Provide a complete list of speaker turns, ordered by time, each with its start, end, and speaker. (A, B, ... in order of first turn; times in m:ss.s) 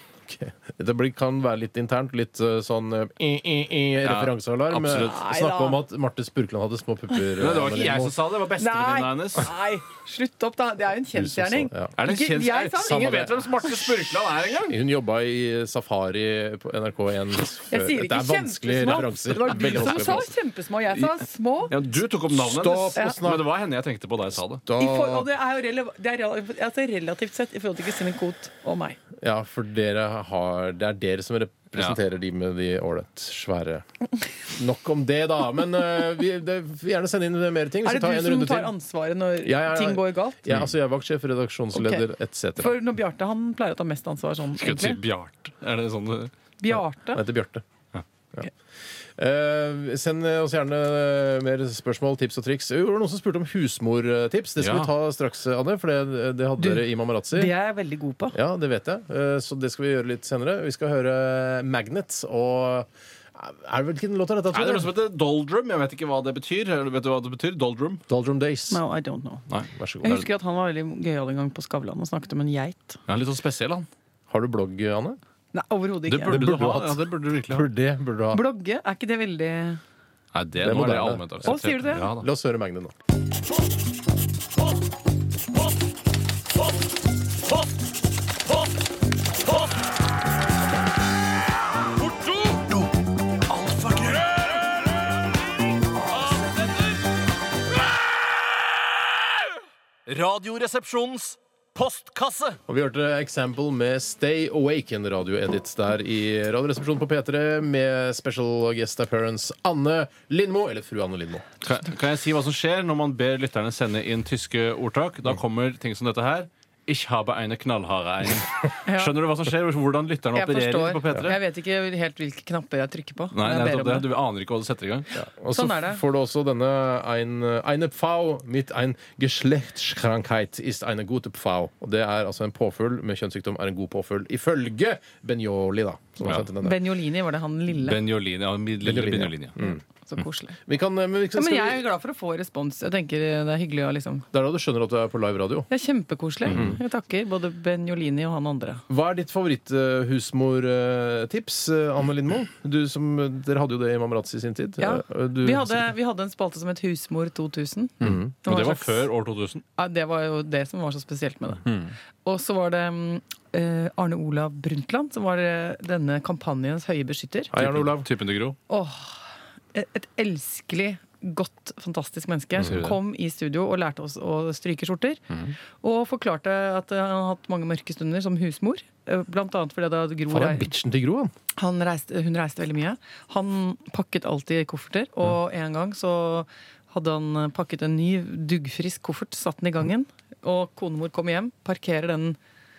0:00.3-0:08.2 A
0:04.0-0:05.2 B
0:04.9-0:05.8 C
0:07.4-0:09.5 B
0:08.6-0:13.4 C
0:11.1-0:11.9 A
0:12.0-0:14.8 B
0:13.0-0:13.3 A
0:14.7-0:20.3 A
0:17.7-0:21.7 C
0:19.8-0:20.2 B
0:21.7-0:24.6 B
0:22.3-0:23.5 A
0:24.6-0:25.3 A
0:24.8-0:29.0 C
0:29.2-0:33.8 A
0:34.5-0:38.7 A
0:37.8-0:40.4 C
0:39.4-0:42.7 A
0:41.7-0:42.0 C
0:42.6-0:45.0 C
0:44.6-0:46.3 B
0:46.6-0:47.2 C
0:46.7-0:47.6 A
0:49.2-0:57.5 A
0:54.6-0:54.9 B
0:56.6-0:58.4 C
0:58.3-1:04.9 A
1:04.5-1:08.0 B
1:08.1-1:08.8 A
1:08.7-1:09.4 C
1:09.5-1:10.1 B
1:09.8-1:10.2 A
1:10.0-1:13.0 C
1:13.1-1:13.9 B
1:14.3-1:15.2 A
1:15.5-1:16.6 C
1:16.1-1:17.7 B
1:16.2-1:18.4 A
1:18.3-1:19.8 C
1:20.3-1:22.3 B
1:20.6-1:22.9 A
1:21.4-1:22.1 C
1:32.0-1:32.9 B
1:33.5-1:34.6 B
1:36.1-1:37.0 B
1:40.1-1:42.6 B
1:42.7-1:51.4 A
1:51.6-2:01.4 B
1:58.8-1:59.1 C
2:00.3-2:04.1 C
2:03.3-2:05.1 B
2:05.1-2:16.8 A
2:05.5-2:06.0 C
2:16.6-2:18.0 C
2:17.7-2:19.6 B
2:18.8-2:19.8 A
2:19.6-2:20.6 C
2:20.7-2:21.8 A
2:21.3-2:24.2 C
2:24.3-2:25.7 A
2:25.7-2:28.8 C
2:26.4-2:26.8 A
2:26.5-2:26.7 B
2:28.9-2:35.9 A
2:34.8-2:39.1 C
2:38.0-2:38.3 A
2:38.0-2:39.6 B
2:39.8-2:41.6 C
2:41.6-2:41.9 B
2:42.2-2:47.5 C
2:47.5-2:48.1 A
2:47.5-2:48.6 B
2:48.7-2:49.2 C
2:49.7-2:55.2 C
2:52.6-2:52.8 A
2:52.6-2:53.0 B
2:55.8-3:00.7 C
3:00.3-3:01.3 A
3:01.6-3:12.4 C